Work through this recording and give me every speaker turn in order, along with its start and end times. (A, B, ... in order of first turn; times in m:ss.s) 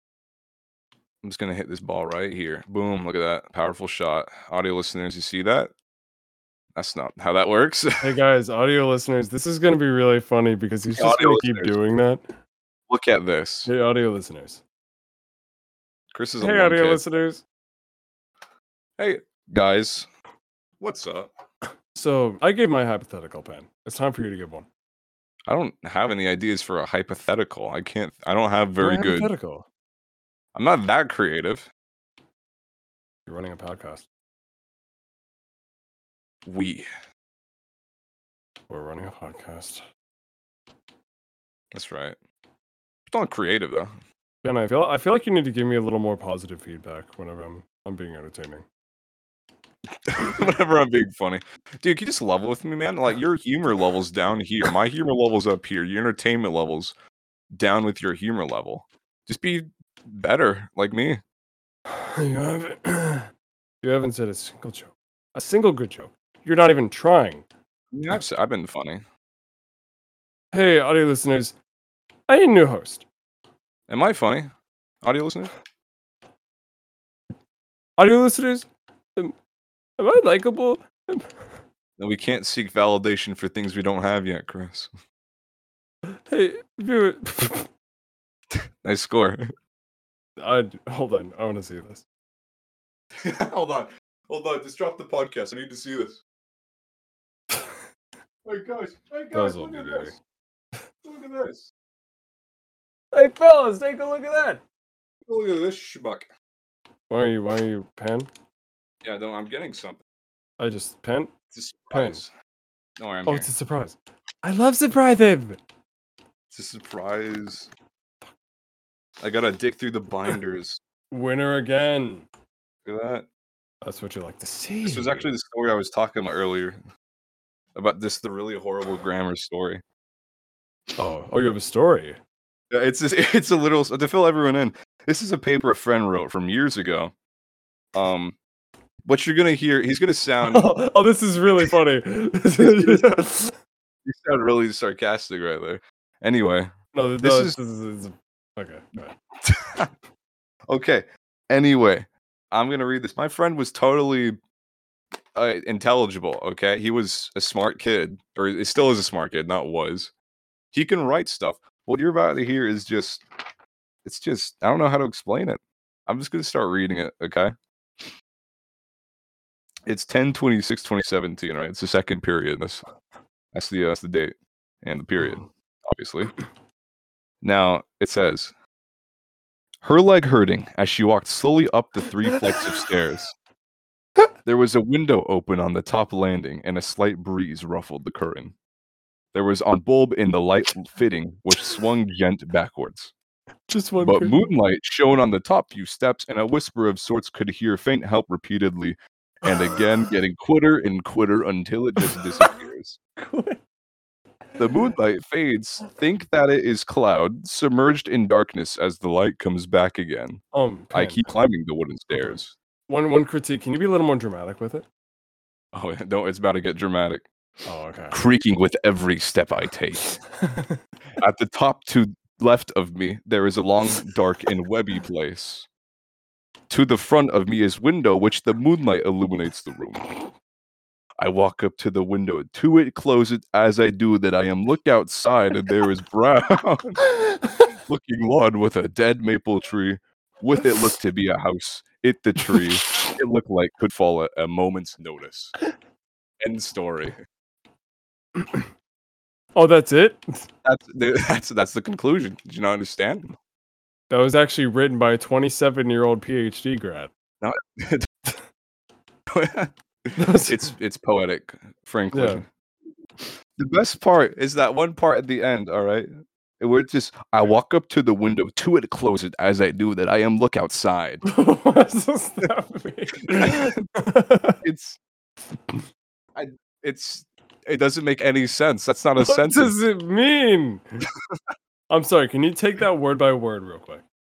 0:01.2-0:05.7 A
0:06.7-0:08.1 A
0:08.0-0:12.3 B
0:10.9-0:11.8 A
0:12.9-0:13.7 A
0:13.6-0:14.6 B
0:16.1-0:17.0 A
0:16.4-0:17.4 B
0:19.0-0:20.1 A
0:20.8-0:21.3 A
0:21.9-0:24.7 B
0:25.5-0:29.3 A
0:28.8-0:29.7 B
0:30.5-0:31.7 A
0:33.3-0:34.1 B
0:36.4-0:36.9 A
0:38.7-0:39.8 B
0:41.7-0:42.2 A
0:43.1-0:43.9 A
0:44.4-0:48.6 B
0:50.1-0:56.9 A
0:57.5-1:01.2 A
1:01.9-1:03.3 B
1:03.8-1:07.4 B
1:07.9-1:09.0 A
1:10.5-1:11.5 B
1:12.3-1:13.0 B
1:13.9-1:15.5 A
1:18.0-1:19.3 B
1:20.0-1:21.3 B
1:22.0-1:24.9 A
1:26.0-1:27.7 B
1:28.5-1:29.5 A
1:30.4-1:32.0 B
1:33.2-1:36.2 A
1:38.4-1:40.2 A
1:39.3-1:40.1 B
1:41.0-1:41.7 A
1:43.1-1:44.6 B
1:45.2-1:46.3 A
1:47.1-1:48.3 B
1:49.0-1:50.0 A
1:50.6-1:51.3 B
1:51.5-1:52.3 A
1:51.9-1:52.2 B
1:53.0-1:53.5 A
1:53.2-1:55.6 B
1:56.5-1:57.7 A
1:59.2-2:00.8 A
2:01.1-2:02.2 B
2:02.8-2:03.2 A
2:03.8-2:05.3 B
2:04.8-2:06.8 A
2:07.8-2:09.8 A
2:11.0-2:12.2 B
2:12.7-2:17.1 A
2:17.9-2:18.4 A
2:19.0-2:20.7 A
2:20.4-2:23.5 B
2:22.6-2:23.2 A
2:24.0-2:27.6 A
2:26.9-2:29.1 B
2:29.4-2:29.9 A
2:30.7-2:34.4 A
2:35.3-2:40.1 A
2:40.7-2:43.2 A
2:44.0-2:48.1 A
2:49.8-2:52.8 A
2:53.5-2:56.3 A
2:57.4-2:58.5 A
2:59.8-3:03.3 A
3:04.4-3:08.5 A
3:09.3-3:13.1 A
3:13.7-3:14.4 B
3:14.0-3:23.0 A
3:19.5-3:19.8 B
3:22.0-3:22.6 B
3:23.2-3:23.6 B
3:24.6-3:24.9 B
3:24.6-3:30.4 A
3:30.5-3:31.2 B
3:30.9-3:32.5 A
3:32.1-3:34.8 B
3:35.7-3:37.2 A
3:37.6-3:38.2 B
3:38.1-3:40.1 A
3:40.0-3:40.8 B
3:41.2-3:45.7 A
3:46.7-3:50.1 A
3:51.2-3:57.1 A
3:57.0-3:57.7 B
3:57.8-4:05.5 A
4:06.4-4:07.2 A
4:08.4-4:08.7 B
4:09.6-4:10.5 B
4:10.6-4:13.3 A
4:14.1-4:17.1 B
4:17.4-4:18.3 A
4:19.3-4:22.5 A
4:20.2-4:20.7 B
4:22.1-4:22.4 B
4:23.2-4:26.1 A
4:26.6-4:31.2 A
4:31.2-4:34.6 B
4:33.3-4:33.8 A
4:34.6-4:35.0 A
4:36.3-4:39.7 A
4:39.2-4:41.0 B
4:41.9-4:44.0 B